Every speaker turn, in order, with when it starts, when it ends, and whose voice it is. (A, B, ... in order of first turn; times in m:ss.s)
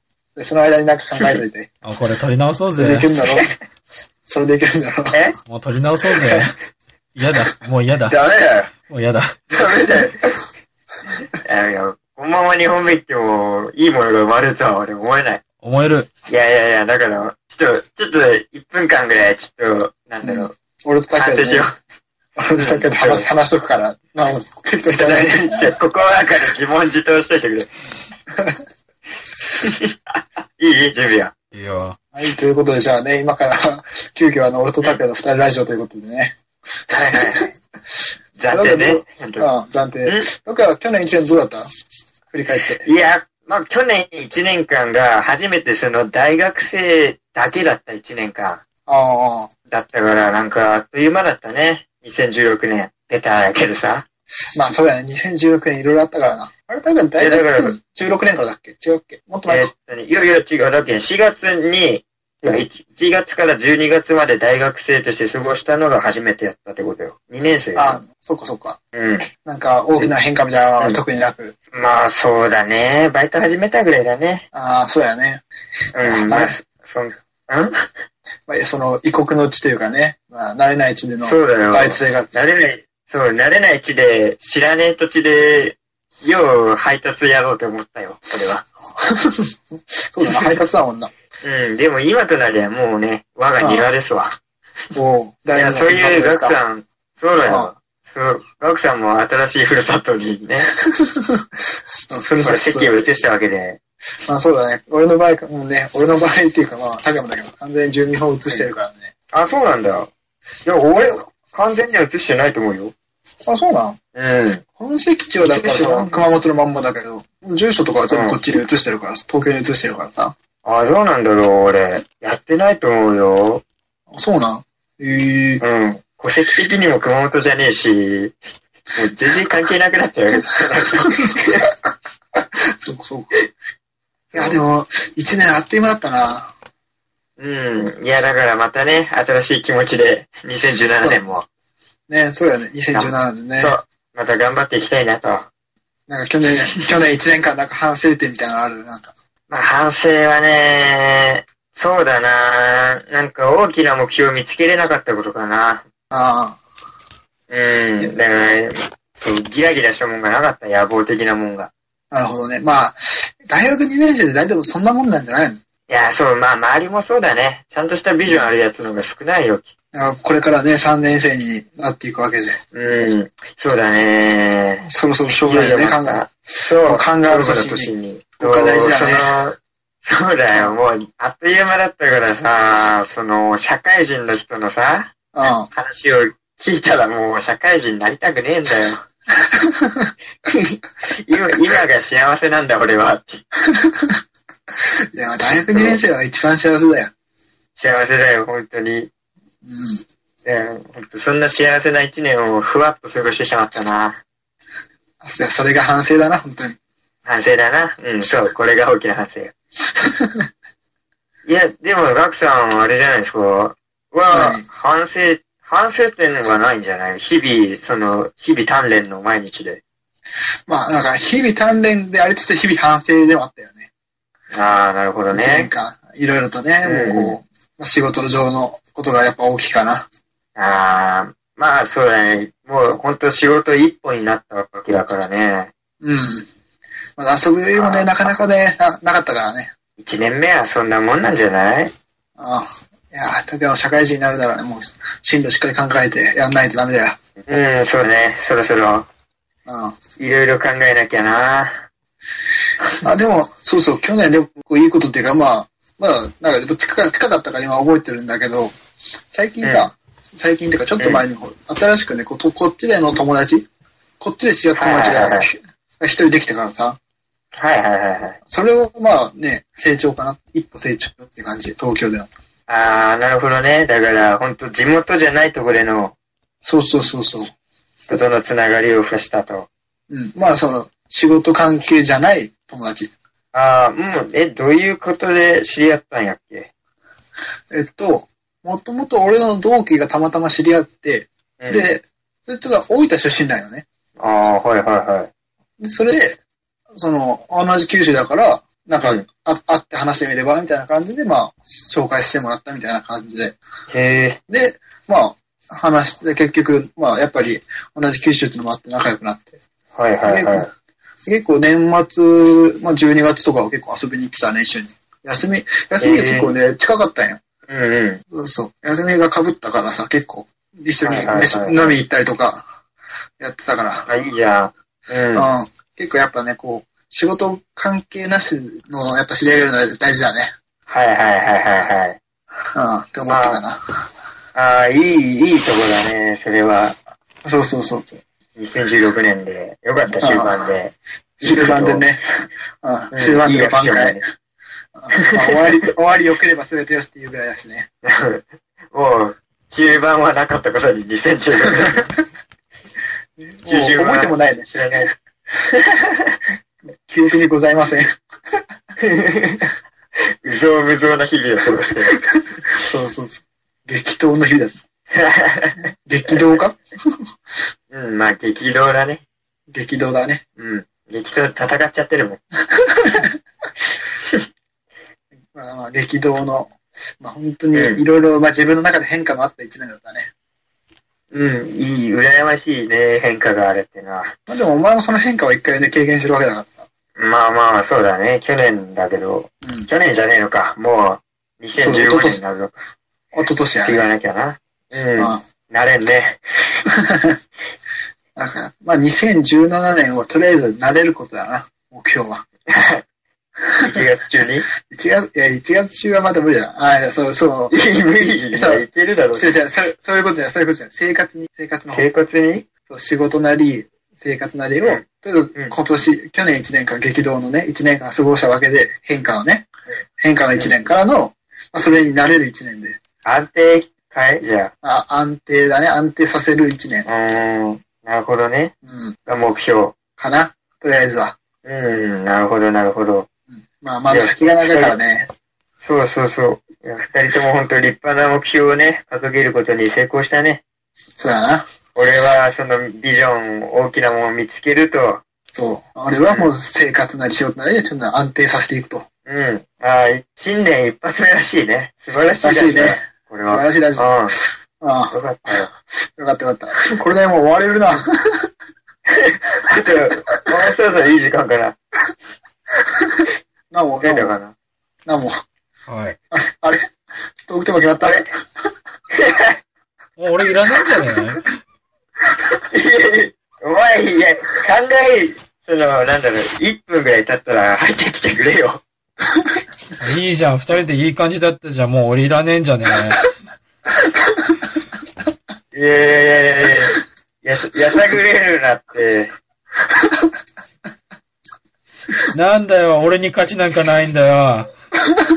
0:00.4-0:01.7 A
0:01.8-0:03.1 B
0:02.8-0:03.5 A
0:04.2-0:05.2 A
0:05.1-0:05.4 C
0:05.5-0:06.6 B
0:06.2-0:06.5 A
0:07.2-0:08.2 B
0:08.1-0:08.7 C
0:08.9-0:09.4 B
0:09.5-0:10.4 C
0:11.4-0:15.4 C
0:15.6-0:16.1 B
0:16.3-0:20.5 C
0:20.2-0:21.7 A
0:21.1-0:21.8 C
0:22.4-0:25.7 A
0:22.6-0:23.3 C
0:25.0-0:27.7 C
0:29.6-0:30.0 C
0:30.6-0:31.3 C
0:31.5-0:32.0 B
0:32.1-0:36.3 A
0:36.9-0:37.5 C
0:37.1-0:37.5 A
0:38.4-0:39.5 C
0:38.5-0:41.7 A
0:40.1-0:40.3 C
0:42.3-0:42.9 A
0:42.8-0:48.6 C
0:48.9-0:49.5 A
0:49.7-0:54.0 C
0:54.6-0:59.7 A
0:57.2-0:57.8 C
0:59.5-1:08.0 C
1:07.8-1:08.8 A
1:08.9-1:09.3 C
1:09.4-1:11.6 A
1:11.7-1:14.5 C
1:14.5-1:15.4 A
1:16.0-1:17.7 C
1:16.0-1:16.6 A
1:18.5-1:22.3 A
1:21.2-1:28.6 C
1:29.0-1:29.6 A
1:30.1-1:31.1 A
1:30.3-1:30.6 C
1:31.4-1:34.4 C
1:33.6-1:33.9 A
1:35.0-1:36.6 A
1:35.5-1:40.7 C
1:37.5-1:37.7 A
1:41.0-1:41.4 A
1:42.1-1:43.0 A
1:42.3-1:43.8 C
1:44.3-1:49.1 A
1:49.3-1:50.1 C
1:50.6-1:52.9 C
1:53.5-1:54.0 A
1:54.2-1:54.6 C
1:54.8-2:00.3 A
1:55.4-1:56.2 C
1:58.1-1:58.4 C
2:00.6-2:03.6 C
2:04.1-2:05.6 A
2:05.6-2:08.4 C
2:09.0-2:11.7 C
2:12.7-2:13.4 A
2:14.3-2:16.5 A
2:14.3-2:14.6 C
2:17.4-2:21.5 C
2:22.1-2:23.8 A
2:22.9-2:25.5 C
2:26.1-2:29.1 A
2:29.5-2:35.8 C
2:36.1-2:36.6 A
2:37.5-2:41.7 C
2:42.1-2:45.6 A
2:45.9-2:49.7 C
2:49.9-2:53.1 A
2:52.7-2:54.9 C
2:54.9-2:59.3 A
2:55.4-3:05.1 C
3:05.3-3:05.7 A
3:05.7-3:09.0 C
3:09.5-3:10.1 A
3:10.5-3:13.4 C
3:13.7-3:14.2 A
3:15.1-3:17.1 A
3:15.5-3:16.0 C
3:17.8-3:19.1 C
3:19.6-3:20.0 A
3:20.4-3:24.2 C
3:25.2-3:26.8 A
3:27.2-3:29.5 C
3:31.5-3:39.8 C
3:34.3-3:34.7 A
3:40.7-3:43.9 A
3:44.5-3:45.7 C
3:45.3-3:50.0 A
3:46.8-3:47.4 C
3:50.6-3:55.7 C
3:56.0-3:56.5 A
3:57.2-3:59.7 A
3:57.8-3:58.4 C
4:00.0-4:01.9 C
4:02.4-4:07.2 A
4:07.4-4:09.1 C
4:09.7-4:10.0 A
4:10.2-4:11.8 C
4:13.0-4:18.8 A
4:19.3-4:23.7 A
4:19.6-4:19.9 C
4:21.0-4:21.2 C
4:24.2-4:27.0 A
4:24.8-4:25.5 C
4:27.6-4:28.4 C
4:28.5-4:32.3 A
4:32.7-4:36.2 C
4:36.6-4:37.5 A
4:38.1-4:39.7 C
4:40.1-4:43.1 A
4:43.5-4:46.7 C
4:47.7-4:53.8 A
4:51.6-4:51.9 C
4:54.2-4:55.3 C
4:55.8-4:56.4 A
4:57.0-5:03.6 A
5:03.9-5:04.4 C
5:04.5-5:09.6 A
5:09.9-5:10.7 C
5:10.2-5:10.7 A
5:11.2-5:17.4 A
5:16.0-5:16.6 C
5:17.7-5:18.2 C
5:18.3-5:22.7 A
5:21.0-5:22.0 C
5:23.4-5:24.1 A
5:24.1-5:25.5 C
5:25.3-5:30.5 A
5:30.9-5:32.2 C
5:32.8-5:33.8 A
5:33.3-5:33.6 C
5:34.6-5:37.0 C
5:37.4-5:38.2 A
5:38.6-5:42.1 C
5:40.1-5:40.6 A
5:41.4-5:44.2 A
5:43.1-5:44.2 C
5:45.0-5:47.9 A
5:45.2-5:45.8 C
5:48.0-5:52.2 C
5:53.4-5:55.1 A
5:53.7-5:55.1 C
5:55.8-5:56.3 C
5:57.1-5:58.1 A
5:59.0-5:59.7 C
6:00.4-6:02.2 C
6:02.8-6:04.8 A
6:05.1-6:06.6 C
6:06.1-6:06.8 A
6:07.9-6:09.2 C
6:09.7-6:10.4 A
6:10.6-6:12.4 C
6:12.9-6:13.3 A
6:15.5-6:20.3 A
6:17.7-6:18.0 C
6:21.3-6:24.3 C
6:24.5-6:26.9 A
6:27.2-6:32.8 C
6:31.8-6:32.4 A
6:33.3-6:34.1 A
6:33.8-6:36.8 C
6:35.2-6:35.4 A
6:37.1-6:37.4 A
6:38.4-6:42.4 A
6:42.7-6:43.0 C
6:43.7-6:44.0 A
6:43.8-6:44.6 C
6:44.9-6:47.8 A
6:47.7-6:49.6 C
6:48.5-6:48.8 A
6:49.4-6:52.1 A
6:51.9-6:52.7 C
6:52.9-7:03.0 A
7:03.2-7:04.7 C
7:04.8-7:07.1 A
7:07.1-7:08.7 C
7:08.8-7:09.2 A
7:09.3-7:10.0 C
7:10.2-7:11.4 A
7:11.6-7:13.3 C
7:13.5-7:15.3 A
7:14.1-7:15.0 C
7:15.8-7:20.6 C
7:21.2-7:21.6 A
7:22.0-7:25.2 C
7:25.5-7:29.1 A
7:26.2-7:26.5 C
7:29.3-7:34.3 C
7:32.4-7:34.1 A
7:34.8-7:38.4 A
7:35.1-7:35.7 C
7:39.1-7:41.8 C
7:43.7-7:44.4 A
7:44.0-7:44.5 C
7:45.1-7:45.4 A
7:45.9-7:46.2 B
7:46.3-7:46.8 A
7:47.5-7:48.3 A
7:49.2-7:49.6 C
7:50.2-7:51.6 B
7:52.7-7:58.8 C
8:00.0-8:03.2 B
8:05.7-8:09.3 C
8:12.3-8:14.7 B